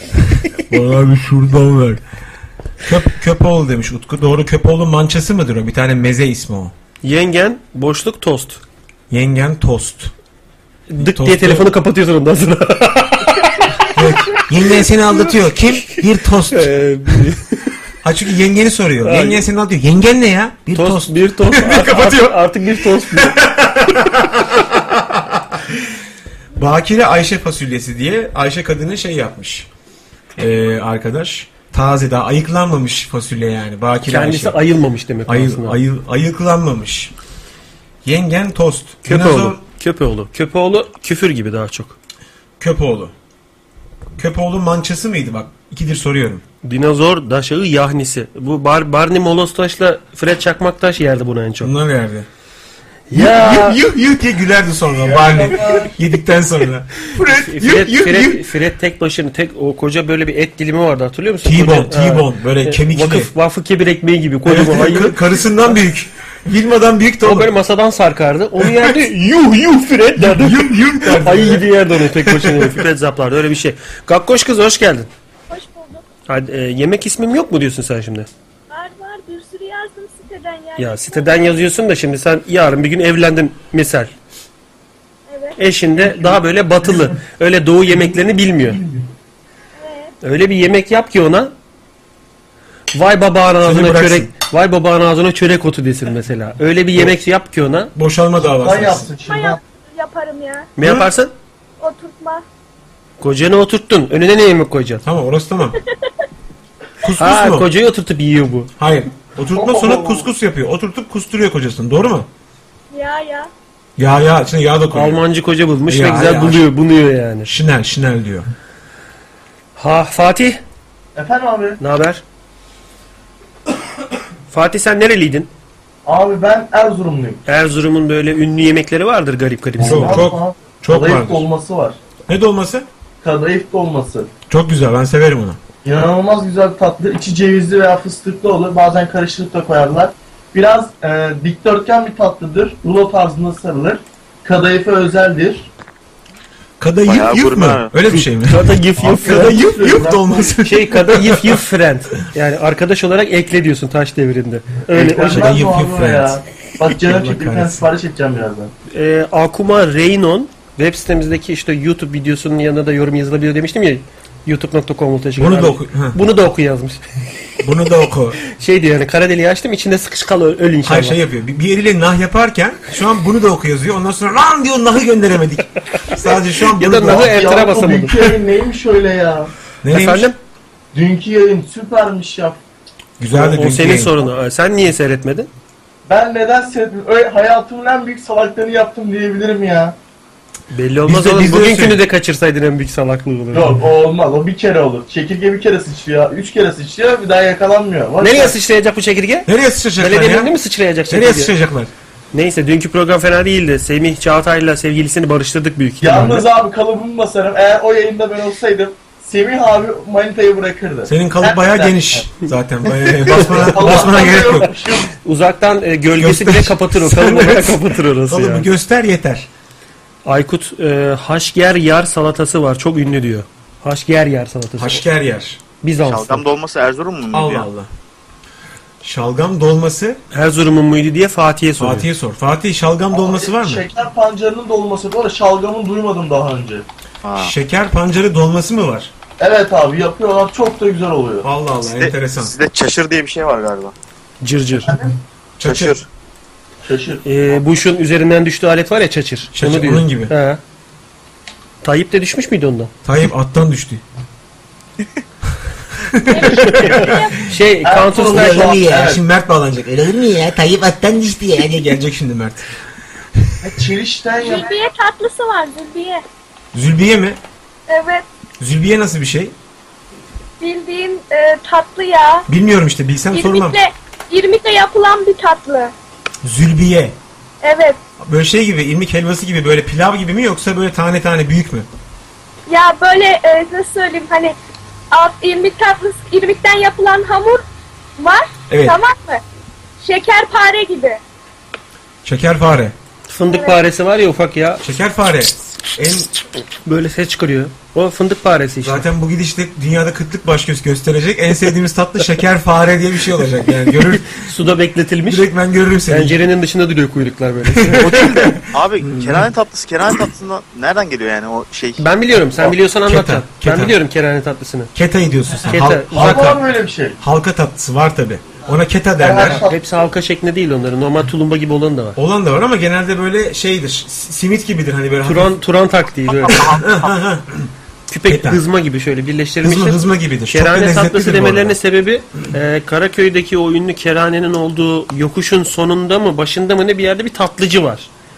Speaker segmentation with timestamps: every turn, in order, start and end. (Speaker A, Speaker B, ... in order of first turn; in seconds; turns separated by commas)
Speaker A: 0.3-2.0, Speaker A: 2.8-6.7, Speaker B: 7.0-8.6, Speaker A: 9.1-10.1, Speaker B: 10.9-13.8, Speaker A: 11.0-11.7, Speaker A: 13.9-16.7, Speaker B: 16.5-17.6, Speaker A: 18.0-22.4, Speaker B: 19.0-19.5, Speaker B: 20.7-23.4, Speaker A: 22.9-25.7, Speaker A: 26.6-29.7, Speaker A: 30.4-34.6, Speaker B: 34.1-35.8, Speaker A: 35.3-37.1, Speaker A: 38.0-39.6, Speaker B: 39.0-42.0, Speaker A: 42.6-43.1, Speaker A: 44.2-46.4, Speaker B: 46.6-51.7, Speaker A: 51.6-52.3, Speaker B: 53.1-53.8, Speaker A: 53.1-58.4, Speaker C: 55.0-56.0, Speaker B: 57.2-65.2, Speaker A: 61.4-63.3, Speaker A: 64.5-67.5, Speaker B: 67.2-75.1, Speaker A: 68.6-69.0, Speaker A: 70.2-72.8, Speaker D: 75.5-76.0, Speaker B: 76.3-78.3, Speaker D: 78.7-81.7, Speaker B: 80.8-84.1, Speaker D: 85.3-85.6, Speaker B: 85.6-88.8, Speaker C: 86.1-86.3, Speaker D: 89.8-90.1, Speaker B: 90.2-91.5, Speaker B: 92.9-97.9, Speaker A: 93.6-94.3, Speaker A: 98.0-99.1, Speaker C: 98.4-99.6, Speaker D: 99.2-100.7, Speaker B: 100.8-101.3, Speaker A: 100.8-101.1, Speaker D: 101.8-102.4, Speaker B: 103.2-105.0, Speaker A: 105.0-105.8, Speaker A: 107.0-107.7, Speaker B: 107.2-108.7, Speaker A: 108.8-112.3, Speaker C: 109.5-110.3, Speaker D: 112.9-113.5, Speaker A: 114.0-115.2, Speaker B: 114.9-117.5, Speaker A: 115.9-116.7, Speaker A: 117.5-118.5, Speaker B: 119.8-120.6, Speaker C: 121.2-121.8, Speaker B: 121.8-122.2, Speaker B: 124.5-125.5, Speaker C: 126.0-127.4, Speaker B: 127.5-130.3, Speaker C: 129.8-132.0, Speaker A: 129.8-131.4, Speaker A: 132.3-132.9, Speaker C: 133.2-134.3, Speaker A: 134.5-135.6, Speaker C: 135.8-145.7, Speaker A: 146.8-151.6, Speaker E: 147.1-147.9, Speaker B: 148.4-149.6, Speaker C: 149.0-150.5, Speaker B: 150.6-155.5, Speaker C: 154.9-158.7, Speaker A: 155.3-156.4, Speaker A: 157.0-157.9, Speaker B: 158.9-167.0, Speaker A: 165.4-166.2, Speaker A: 167.6-168.4, Speaker B: 168.5-171.2, Speaker A: 170.8-177.3, Speaker B: 176.8-178.3, Speaker C: 177.0-179.5, Speaker A: 179.8-180.3, Speaker B: 179.9-180.4, Speaker C: 180.9-182.6, Speaker A: 183.2-184.2, Speaker B: 183.3-185.5, Speaker C: 186.1-190.0, Speaker B: 190.7-193.8, Speaker A: 191.1-192.0, Speaker C: 193.5-198.6, Speaker B: 198.2-201.5, Speaker A: 199.5-200.6, Speaker A: 201.1-201.9, Speaker B: 202.3-206.4, Speaker C: 206.0-212.3, Speaker A: 211.1-214.7, Speaker B: 213.3-218.7, Speaker C: 213.5-215.1, Speaker A: 216.2-219.5, Speaker B: 220.2-225.0, Speaker A: 224.8-225.6, Speaker B: 225.8-226.4, Speaker E: 226.0-227.7, Speaker A: 227.3-227.9, Speaker A: 229.0-230.2, Speaker B: 230.3-232.1, Speaker A: 231.8-233.8, Speaker C: 233.1-236.8, Speaker E: 237.2-237.5, Speaker A: 237.4-239.1, Speaker C: 239.4-241.5, Speaker A: 241.4-242.5, Speaker E: 241.8-243.9, Speaker B: 244.4-244.9, Speaker C: 244.9-245.1, Speaker A: 245.6-246.0, Speaker E: 245.6-246.1, Speaker C: 246.8-247.2, Speaker B: 247.2-250.6, Speaker A: 249.5-250.3, Speaker B: 251.8-252.9, Speaker A: 253.0-254.0, Speaker A: 256.0-257.2, Speaker D: 256.3-257.4, Speaker B: 256.4-258.7, Speaker C: 257.8-259.2, Speaker A: 258.2-260.6, Speaker F: 258.3-259.1, Speaker F: 260.3-261.6, Speaker A: 261.5-262.7, Speaker C: 263.6-264.7, Speaker D: 264.4-266.2, Speaker A: 266.7-267.4, Speaker D: 267.9-268.2, Speaker A: 268.6-269.6, Speaker D: 270.6-272.5, Speaker A: 272.5-273.8, Speaker D: 273.3-275.9, Speaker A: 276.4-277.2, Speaker D: 277.6-278.0, Speaker A: 278.2-281.9, Speaker D: 282.7-284.6, Speaker D: 285.1-287.6, Speaker D: 288.2-289.4, Speaker A: 288.7-289.0, Speaker D: 290.0-291.2, Speaker A: 292.2-292.9, Speaker B: 293.3-294.8, Speaker D: 293.5-293.8, Speaker A: 294.8-296.3, Speaker B: 296.9-299.1, Speaker A: 298.8-304.3, Speaker B: 304.2-305.5, Speaker A: 305.3-306.4, Speaker B: 306.1-308.6, Speaker A: 307.7-309.5, Speaker E: 308.1-312.1, Speaker B: 312.0-314.9, Speaker A: 313.1-314.0, Speaker A: 314.9-316.6, Speaker B: 315.7-316.5, Speaker C: 316.1-317.2, Speaker A: 317.2-319.6, Speaker C: 319.2-319.8, Speaker B: 319.5-322.2, Speaker A: 322.2-325.6, Speaker B: 325.2-326.8, Speaker A: 326.5-327.7, Speaker B: 328.1-338.1, Speaker A: 328.3-328.6, Speaker A: 329.6-331.8